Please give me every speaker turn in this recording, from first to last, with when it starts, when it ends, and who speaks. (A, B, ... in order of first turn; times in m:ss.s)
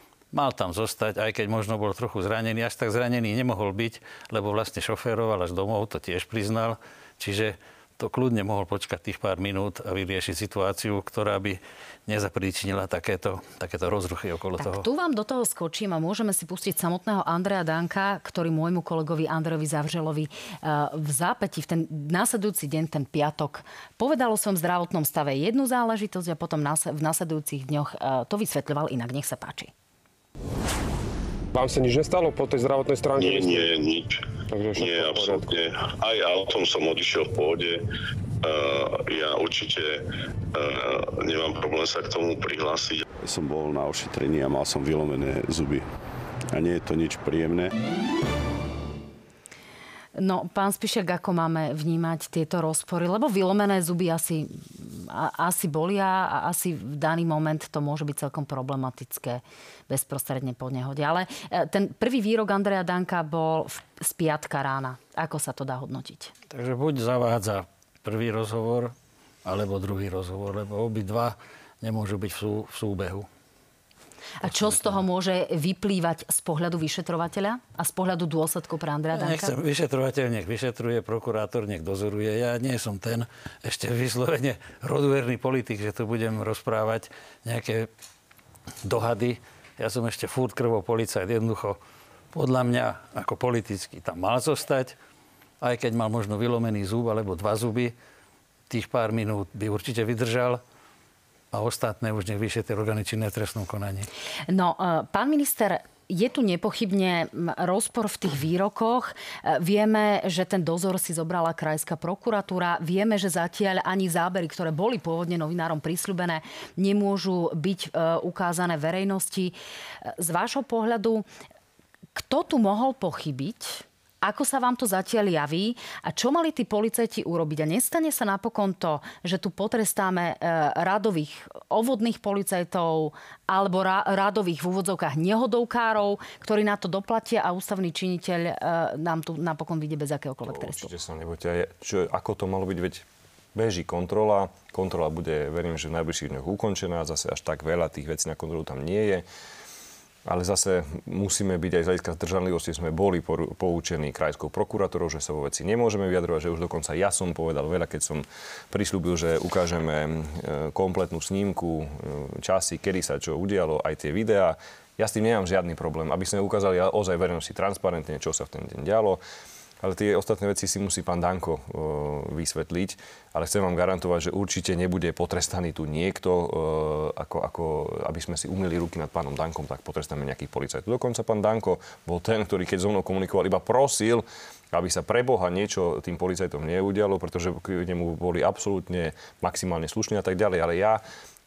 0:00.3-0:14.9 A
0:14.6-0:29.7 B
0:31.5-0:33.8 C
0:33.2-0:34.2 D
0:34.5-0:35.5 C
0:34.7-0:37.8 D
0:38.4-0:40.0 D
0:40.5-0:43.0 D
0:43.2-0:45.9 E
0:46.5-0:47.7 E
0:50.1-1:06.3 B
1:06.5-1:08.9 A
1:09.4-1:13.3 A
1:14.4-1:19.5 B
1:19.1-1:27.9 A
1:28.8-1:31.8 A
1:32.3-1:34.9 A
1:35.6-1:37.9 A
1:38.7-1:40.6 A
1:41.5-1:44.1 A
1:44.5-2:01.2 B
2:02.1-2:20.9 B
2:20.4-2:29.2 F
2:30.2-2:49.2 F
2:49.8-3:11.0 F